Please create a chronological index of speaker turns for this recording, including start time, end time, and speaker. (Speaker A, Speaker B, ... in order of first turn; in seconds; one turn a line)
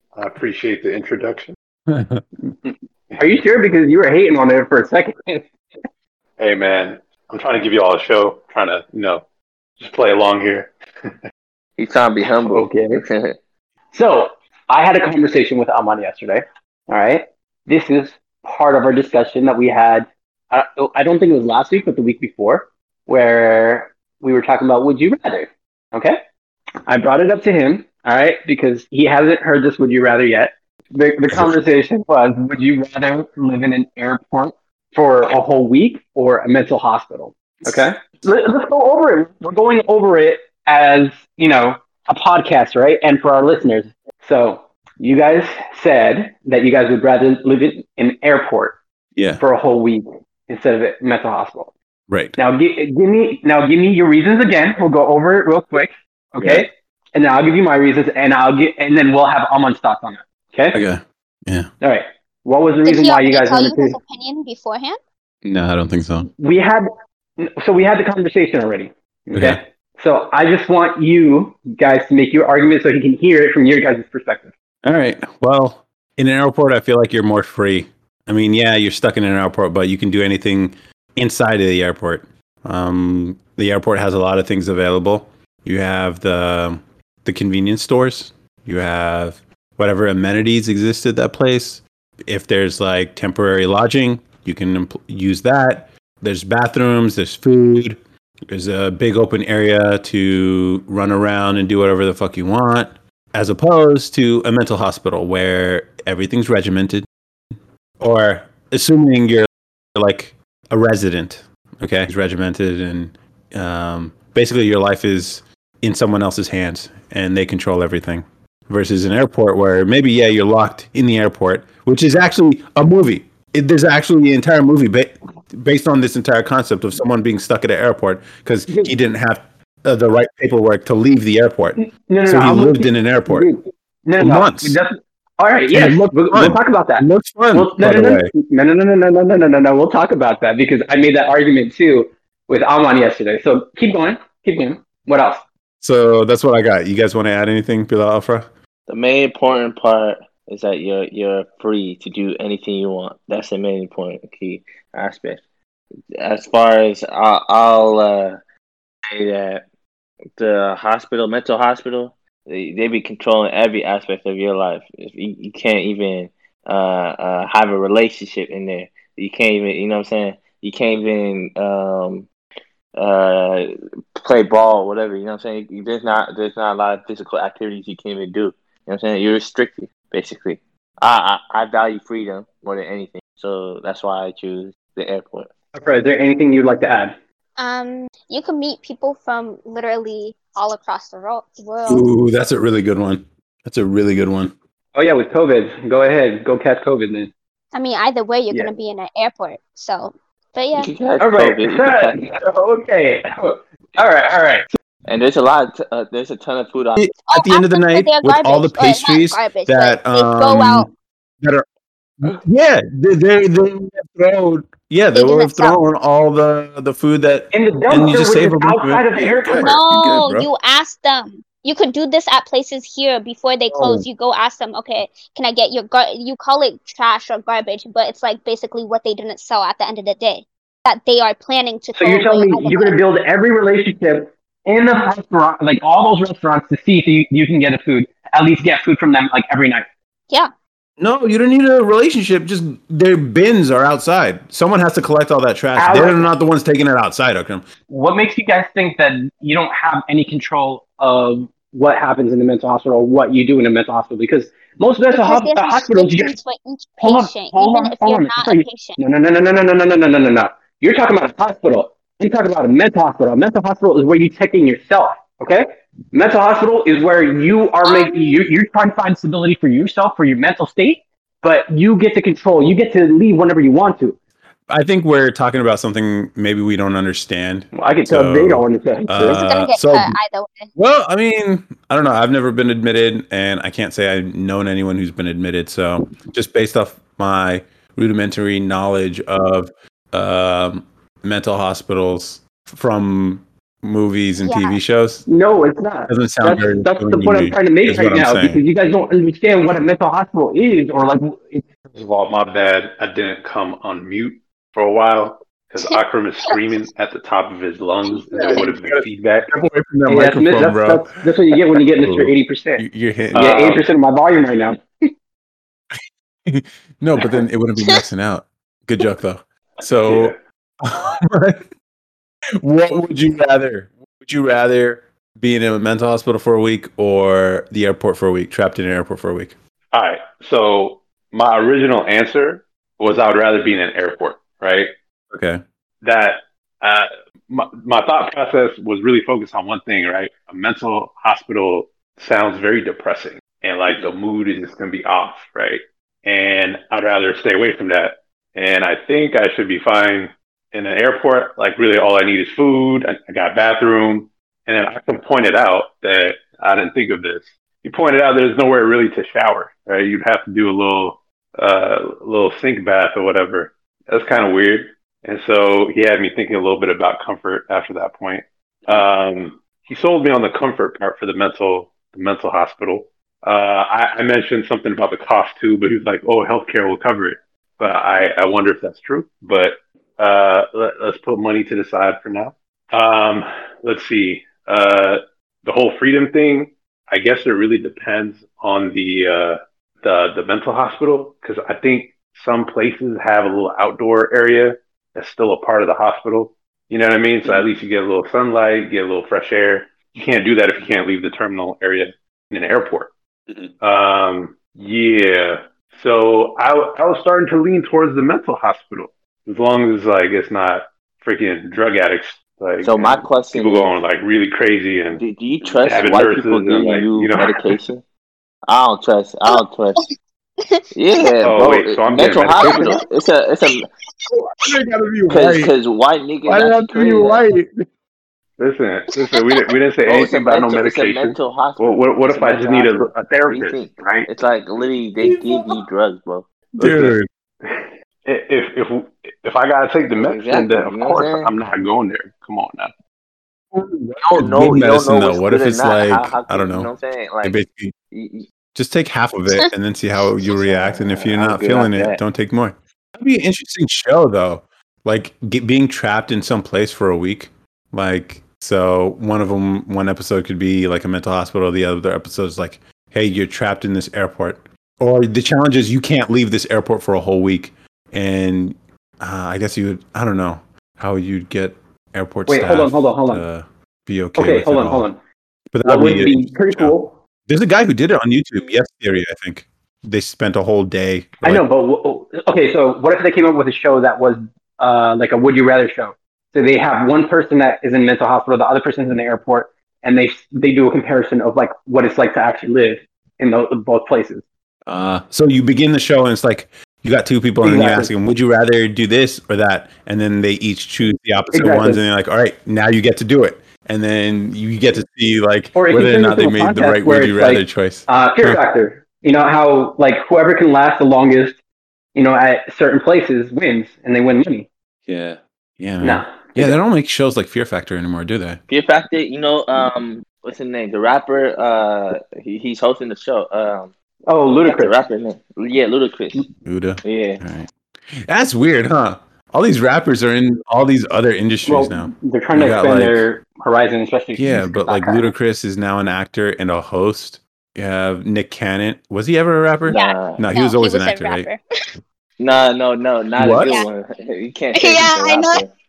Speaker A: 0.1-1.5
Speaker B: 1.9-2.2
Speaker C: 3.2-5.5
Speaker A: 6.4-9.2
Speaker A: 9.8-11.1
Speaker D: 11.8-13.4
Speaker C: 12.4-13.0
Speaker C: 13.9-26.2
Speaker C: 26.9-48.8
Speaker B: 31.3-31.5
Speaker B: 49.1-49.4
Speaker C: 49.4-51.7
Speaker B: 52.1-52.4
Speaker C: 52.4-60.8
Speaker B: 56.4-56.7
Speaker B: 60.7-61.7
Speaker C: 61.8-64.0
Speaker E: 62.8-65.0
Speaker B: 65.4-66.3
Speaker C: 66.4-74.5
Speaker B: 69.3-69.6
Speaker B: 74.8-98.0
Speaker B: 98.5-107.0
Speaker B: 108.0-133.5
Speaker C: 131.8-145.4
Speaker B: 134.2-134.8
Speaker B: 135.7-138.3
Speaker B: 145.8-148.5
Speaker D: 148.9-155.4
Speaker D: 156.2-158.4
Speaker D: 159.1-159.6
Speaker D: 160.4-172.3
Speaker D: 172.9-185.5
Speaker C: 185.7-187.1
Speaker E: 187.6-192.1
Speaker B: 191.9-194.5
Speaker C: 194.9-197.3
Speaker E: 197.7-200.9
Speaker D: 200.8-202.2
Speaker C: 201.2-204.7
Speaker D: 205.1-207.0
Speaker B: 207.0-210.9
Speaker E: 207.3-210.9
Speaker B: 212.2-220.5
Speaker E: 215.1-215.8
Speaker C: 217.5-219.8
Speaker E: 219.5-233.0
Speaker B: 223.7-224.0
Speaker C: 232.0-239.8
Speaker B: 241.0-247.6
Speaker C: 245.8-246.3
Speaker C: 247.9-256.3
Speaker E: 255.1-259.0
Speaker C: 257.0-274.1
Speaker E: 267.8-268.5
Speaker B: 274.7-280.1
Speaker C: 277.7-279.4
Speaker E: 279.2-280.7
Speaker B: 280.8-295.2
Speaker E: 294.4-294.8
Speaker C: 295.3-301.7
Speaker B: 296.1-298.6
Speaker A: 301.9-309.5
Speaker B: 308.3-313.5
Speaker E: 308.3-308.6
Speaker C: 310.1-314.8
Speaker A: 313.3-313.9
Speaker B: 316.5-321.6
Speaker A: 320.1-320.4
Speaker B: 322.6-329.5
Speaker A: 329.9-334.9
Speaker B: 335.3-335.6
Speaker A: 336.0-403.1
Speaker A: 403.8-415.2
Speaker D: 412.8-414.0
Speaker D: 415.1-418.0
Speaker A: 415.8-417.8
Speaker D: 418.7-420.0
Speaker E: 419.5-420.1
Speaker E: 420.6-421.3
Speaker D: 420.9-423.9
Speaker A: 421.4-423.0
Speaker B: 424.3-425.7
Speaker D: 425.3-427.4
Speaker B: 426.5-427.9
Speaker A: 428.6-434.3
Speaker E: 429.2-429.7
Speaker D: 430.0-437.1
Speaker B: 435.2-435.5
Speaker B: 436.8-437.3
Speaker A: 437.6-442.9
Speaker D: 440.2-441.5
Speaker B: 443.7-446.9
Speaker D: 444.2-447.6
Speaker B: 447.4-447.9
Speaker D: 448.1-448.5
Speaker B: 448.8-475.1
Speaker D: 450.5-452.2
Speaker C: 472.5-473.4
Speaker C: 474.4-475.2
Speaker B: 475.7-476.9
Speaker C: 475.8-477.1
Speaker B: 477.5-481.6
Speaker C: 481.4-494.4
Speaker B: 494.9-508.6
Speaker C: 497.6-498.1
Speaker C: 501.5-502.0
Speaker C: 505.8-511.6
Speaker C: 512.1-514.7
Speaker B: 515.1-518.6
Speaker C: 516.0-516.8
Speaker D: 518.7-523.9
Speaker C: 524.3-525.0
Speaker D: 524.6-526.5
Speaker B: 526.6-533.2
Speaker D: 527.0-527.4
Speaker C: 531.7-535.3
Speaker B: 534.4-541.5
Speaker D: 539.9-540.4
Speaker E: 539.9-541.6
Speaker D: 542.4-545.7
Speaker B: 543.4-543.8
Speaker E: 543.6-543.9
Speaker E: 544.8-545.6